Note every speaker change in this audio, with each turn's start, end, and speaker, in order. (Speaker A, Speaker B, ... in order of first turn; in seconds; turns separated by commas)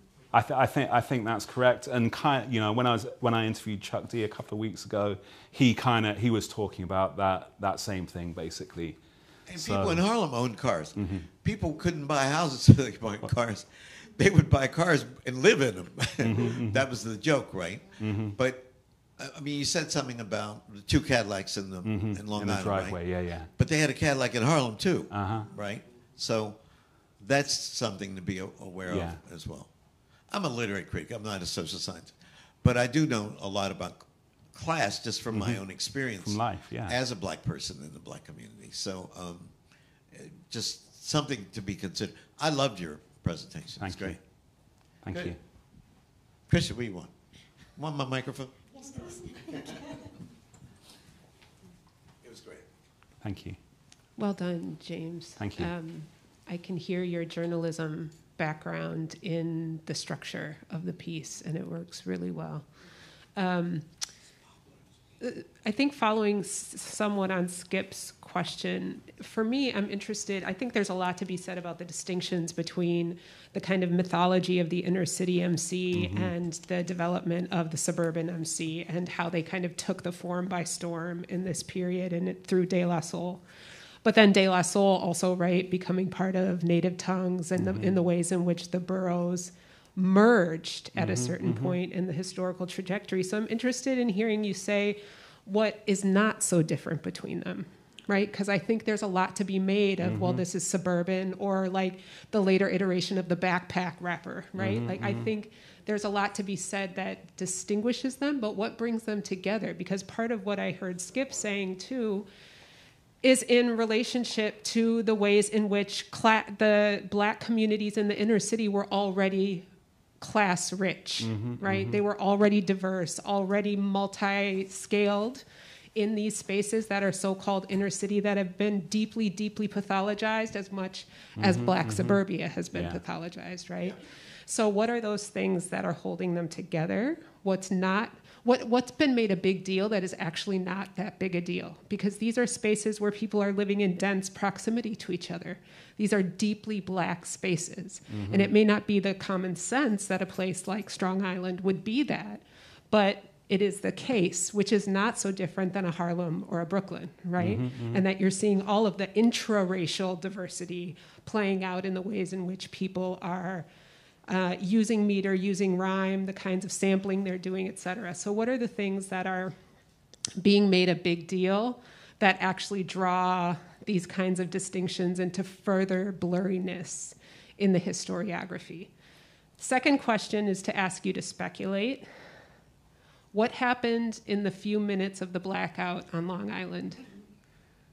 Speaker A: 0.3-9.0, Speaker B: 9.5-23.0, Speaker A: 9.6-10.0, Speaker A: 10.9-11.2, Speaker A: 16.2-16.9, Speaker A: 18.0-18.4, Speaker A: 21.8-23.5, Speaker B: 23.6-26.6, Speaker A: 25.1-25.5, Speaker B: 27.2-29.7, Speaker A: 28.9-29.2, Speaker B: 30.3-39.5, Speaker A: 35.3-35.6, Speaker A: 36.2-37.0, Speaker B: 40.1-44.2, Speaker A: 43.8-44.2, Speaker A: 45.0-45.4, Speaker B: 45.1-45.4, Speaker B: 46.5-47.1, Speaker B: 47.7-49.8, Speaker B: 52.2-52.7, Speaker A: 53.2-53.6, Speaker C: 54.2-62.6, Speaker A: 55.4-55.7, Speaker C: 63.3-63.9, Speaker C: 65.2-83.4, Speaker A: 75.9-76.3, Speaker C: 84.0-112.3, Speaker A: 87.6-87.9, Speaker A: 90.9-91.8, Speaker A: 100.0-100.4, Speaker A: 104.6-105.3, Speaker C: 113.2-119.7, Speaker C: 120.2-163.7, Speaker A: 121.2-122.0, Speaker A: 131.4-132.2, Speaker A: 132.7-133.0, Speaker A: 148.1-148.5, Speaker A: 157.4-158.0, Speaker C: 164.3-169.5, Speaker C: 170.4-178.9, Speaker C: 179.6-182.1, Speaker C: 183.3-187.0